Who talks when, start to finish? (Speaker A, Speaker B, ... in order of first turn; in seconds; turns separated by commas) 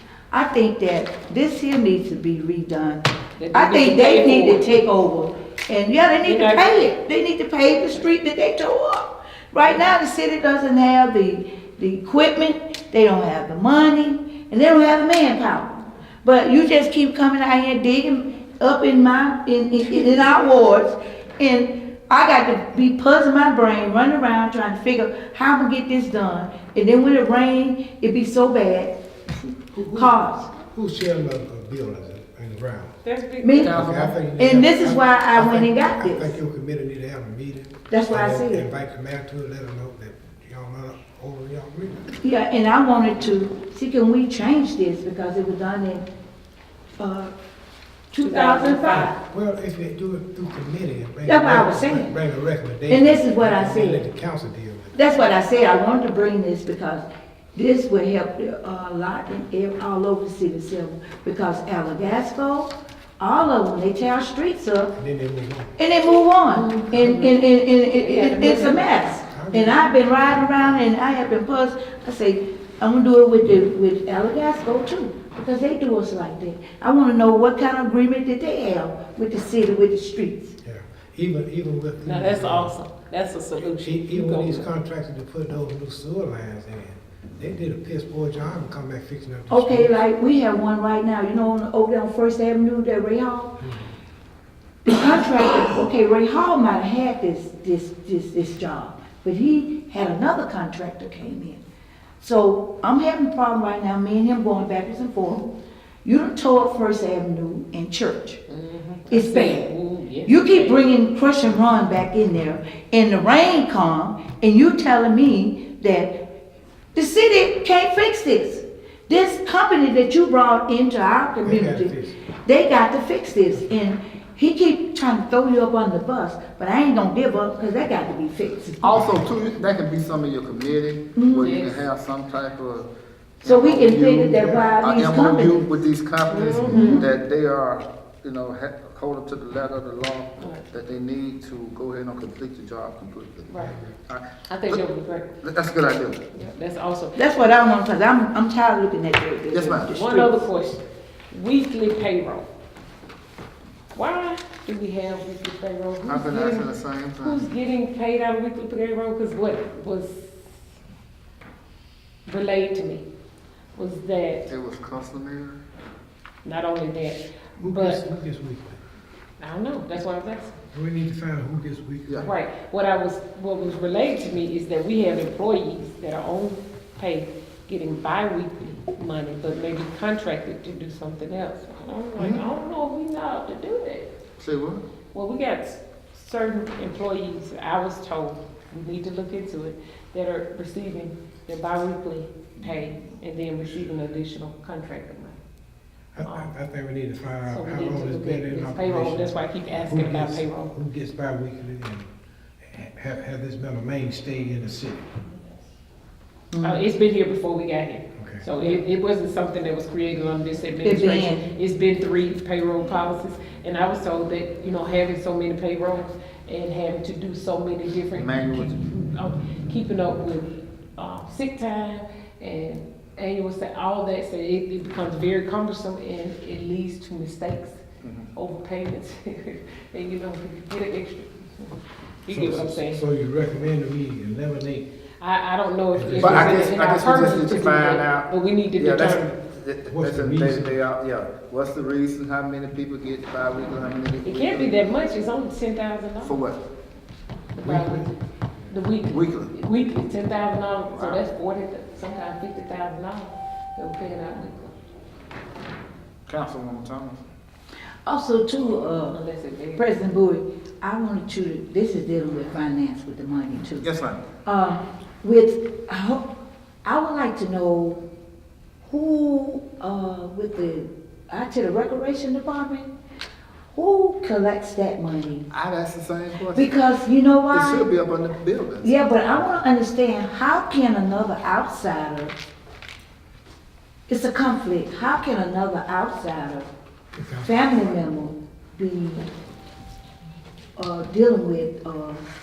Speaker A: 0.3-28.9, Speaker B: 3.4-4.8, Speaker B: 6.2-6.8, Speaker C: 29.7-32.9, Speaker A: 29.9-30.5, Speaker B: 33.0-34.2, Speaker A: 33.4-33.8, Speaker C: 33.6-42.1, Speaker A: 34.4-36.4, Speaker A: 37.9-38.7, Speaker A: 42.2-46.1, Speaker A: 46.9-47.4, Speaker A: 48.1-49.2, Speaker B: 48.2-49.1, Speaker C: 49.0-55.0, Speaker A: 51.3-52.1, Speaker A: 52.9-54.0, Speaker A: 55.0-64.9, Speaker C: 65.0-65.7, Speaker A: 65.8-80.6, Speaker B: 66.5-67.4, Speaker B: 68.0-69.0, Speaker C: 69.3-70.4, Speaker C: 80.6-82.7, Speaker B: 82.0-84.7, Speaker C: 83.8-90.0, Speaker A: 89.5-93.6, Speaker C: 93.6-93.9, Speaker A: 94.8-101.6, Speaker A: 102.2-105.5, Speaker A: 106.0-108.4, Speaker B: 108.5-110.9, Speaker A: 109.1-109.7, Speaker A: 110.3-116.2, Speaker A: 117.0-121.9, Speaker C: 121.4-122.2, Speaker A: 122.4-129.0, Speaker D: 128.8-132.9, Speaker C: 128.9-129.2, Speaker A: 131.2-131.6, Speaker B: 131.4-131.9, Speaker A: 133.4-135.7, Speaker D: 133.4-143.5, Speaker C: 134.0-134.7, Speaker B: 136.3-137.1, Speaker A: 136.7-137.1, Speaker B: 140.4-140.7, Speaker B: 143.5-143.8, Speaker C: 143.6-144.0, Speaker D: 144.1-144.8, Speaker B: 144.5-145.3, Speaker D: 145.4-146.3, Speaker B: 146.3-147.2, Speaker A: 147.2-150.5, Speaker D: 149.5-149.9, Speaker B: 149.9-152.5, Speaker B: 153.9-160.3, Speaker D: 156.1-157.5, Speaker B: 162.3-163.1, Speaker B: 163.8-164.5, Speaker D: 164.5-165.6, Speaker B: 166.4-168.0, Speaker C: 167.6-168.8, Speaker B: 169.4-170.5, Speaker C: 170.7-172.3, Speaker B: 172.2-184.1, Speaker D: 182.2-182.4, Speaker D: 184.4-184.8, Speaker B: 185.1-195.4, Speaker C: 196.1-202.1, Speaker B: 196.2-196.5, Speaker B: 197.4-200.7, Speaker C: 202.6-205.1, Speaker A: 206.5-206.8, Speaker B: 206.6-227.8, Speaker C: 208.2-208.5, Speaker A: 210.8-211.4, Speaker D: 218.1-218.8, Speaker D: 228.0-228.3, Speaker B: 228.3-233.0, Speaker C: 232.3-234.9, Speaker B: 235.2-239.3, Speaker C: 235.9-237.5, Speaker D: 236.1-244.8, Speaker C: 239.9-240.8, Speaker B: 244.2-246.4, Speaker D: 246.2-246.6, Speaker B: 247.5-248.1, Speaker C: 247.6-248.1, Speaker B: 248.7-254.7, Speaker D: 249.1-249.5, Speaker D: 250.9-251.2, Speaker D: 256.3-257.2, Speaker A: 258.1-259.2, Speaker B: 259.1-259.9, Speaker A: 259.8-263.9, Speaker D: 263.8-264.2, Speaker A: 264.4-266.3, Speaker A: 266.9-268.0, Speaker A: 268.9-272.9, Speaker A: 273.7-275.5, Speaker D: 275.5-276.8, Speaker A: 276.5-277.9, Speaker D: 277.5-279.5, Speaker A: 278.8-282.4, Speaker A: 284.1-286.7, Speaker C: 287.1-287.8, Speaker A: 287.4-289.3, Speaker A: 290.8-292.2